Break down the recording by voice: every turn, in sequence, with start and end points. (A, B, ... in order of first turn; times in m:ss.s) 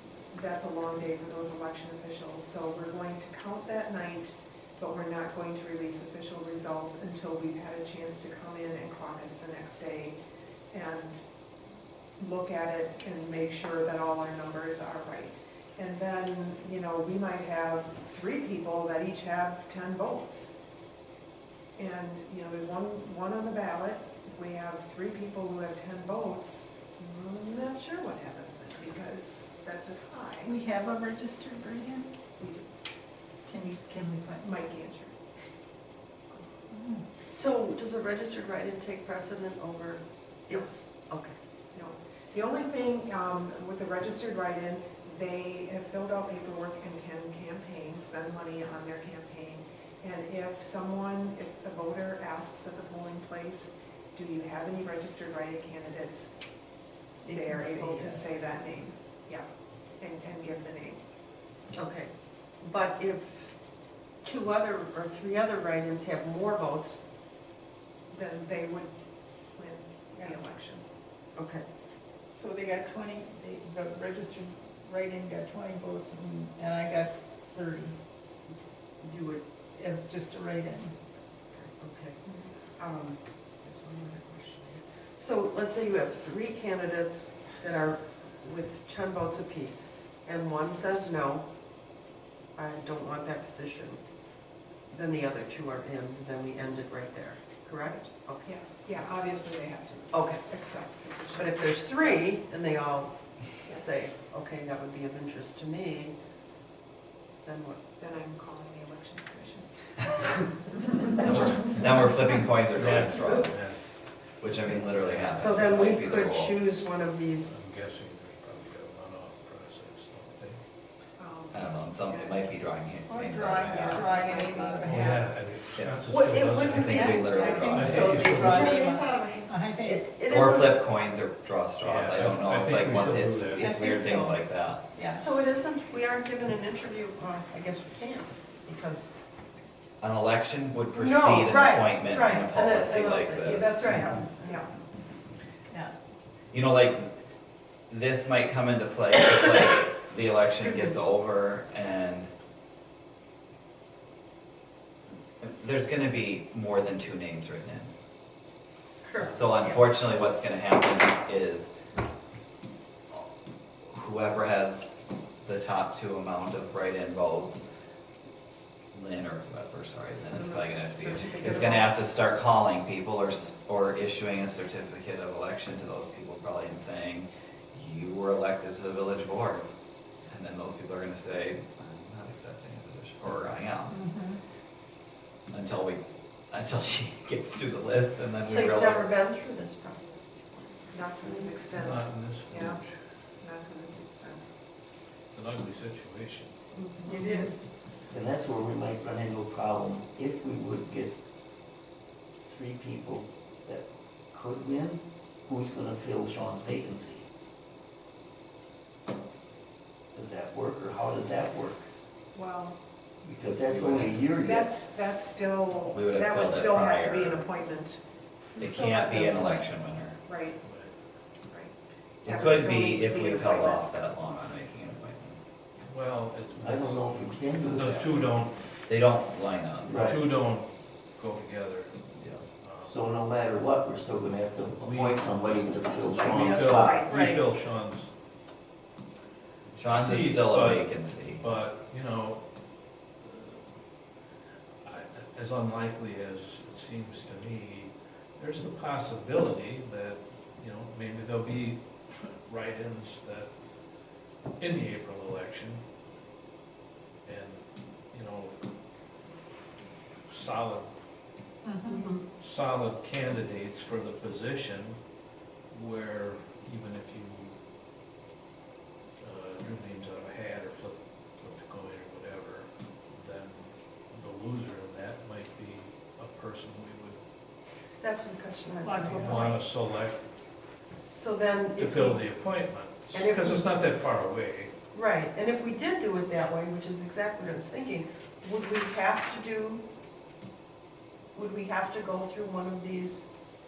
0:00.3-0:10.2 A
0:10.7-0:11.2 A
0:12.2-0:20.5 A
0:21.8-0:30.6 A
0:30.4-0:32.1 B
0:32.4-0:32.7 A
0:33.5-0:34.5 B
0:34.3-0:35.2 A
0:36.7-0:37.0 B
0:37.3-0:41.3 C
0:41.7-0:56.3 A
0:57.2-0:58.4 B
0:57.2-0:59.5 A
1:00.0-1:01.0 A
1:01.7-1:03.6 C
1:04.2-1:07.0 C
1:08.1-1:08.9 A
1:09.5-1:10.8 A
1:11.4-1:11.6 C
1:12.4-1:18.0 B
1:19.0-1:19.4 C
1:19.8-1:20.9 B
1:21.5-1:22.2 C
1:22.8-1:31.5 C
1:32.6-1:34.0 C
1:34.9-1:38.5 C
1:38.5-1:42.2 A
1:40.1-1:40.4 C
1:41.3-1:46.1 C
1:47.4-1:47.8 C
1:48.0-1:50.9 A
1:51.2-1:53.6 D
1:51.3-1:52.1 E
1:52.7-1:53.8 E
1:54.4-1:56.6 D
1:54.7-1:56.0 E
1:55.3-1:57.6 C
1:57.4-2:00.6 E
2:01.2-2:02.4 A
2:01.5-2:04.1 D
2:03.1-2:05.2 B
2:03.5-2:05.2 A
2:04.9-2:08.9 E
2:05.7-2:06.1 D
2:06.1-2:07.1 C
2:06.6-2:08.2 D
2:06.8-2:10.1 B
2:07.7-2:10.8 C
2:10.2-2:14.9 D
2:11.8-2:13.7 E
2:13.6-2:15.2 B
2:15.1-2:19.2 C
2:20.0-2:23.9 D
2:20.9-2:24.8 C
2:23.5-2:24.7 A
2:26.5-2:27.1 D
2:27.9-2:32.3 D
2:30.4-2:31.0 C
2:35.4-2:37.9 D
2:39.0-2:39.8 C
2:39.2-2:41.7 D
2:43.8-2:47.6 D
2:48.9-2:59.6 D
2:50.1-2:52.0 A
3:00.3-3:04.0 D
3:03.9-3:04.4 B
3:05.5-3:09.1 D
3:08.4-3:11.6 C
3:10.9-3:12.8 A
3:11.7-3:12.9 E
3:13.4-3:14.4 A
3:15.3-3:16.6 E
3:16.7-3:17.4 C
3:17.0-3:17.7 A
3:17.1-3:17.5 B
3:18.1-3:21.2 F
3:22.4-3:27.3 F
3:30.1-3:31.8 F
3:32.3-3:32.8 A
3:33.2-3:34.7 F
3:33.6-3:34.2 D
3:34.4-3:38.0 A
3:35.9-3:37.4 D
3:38.6-3:39.6 B
3:38.6-3:40.2 D
3:40.3-3:40.6 A
3:40.6-3:40.9 E
3:41.5-3:43.8 A
3:42.2-3:45.4 D
3:45.8-3:48.7 E
3:46.5-3:48.2 F
3:48.9-3:50.1 D
3:49.8-3:50.2 F
3:49.9-3:52.0 E
3:52.2-3:52.5 D
3:52.6-3:52.9 E
3:52.8-3:57.1 F
3:54.8-3:55.4 E
3:56.2-3:58.1 E
3:57.0-3:57.4 C
3:59.8-4:01.4 D
3:59.8-4:02.4 E
4:03.2-4:03.6 E
4:04.8-4:13.5 E
4:14.6-4:15.8 E
4:17.2-4:18.6 E
4:20.3-4:20.9 E
4:21.6-4:22.1 B
4:21.9-4:22.2 C
4:22.4-4:25.0 E
4:25.7-4:27.6 E
4:29.2-4:37.2 E
4:38.0-4:39.6 C
4:38.8-4:39.6 B
4:39.1-4:40.2 E
4:40.9-4:42.2 C
4:41.8-4:44.7 E
4:43.1-4:43.7 C
4:44.9-4:49.8 C
4:51.3-4:53.3 C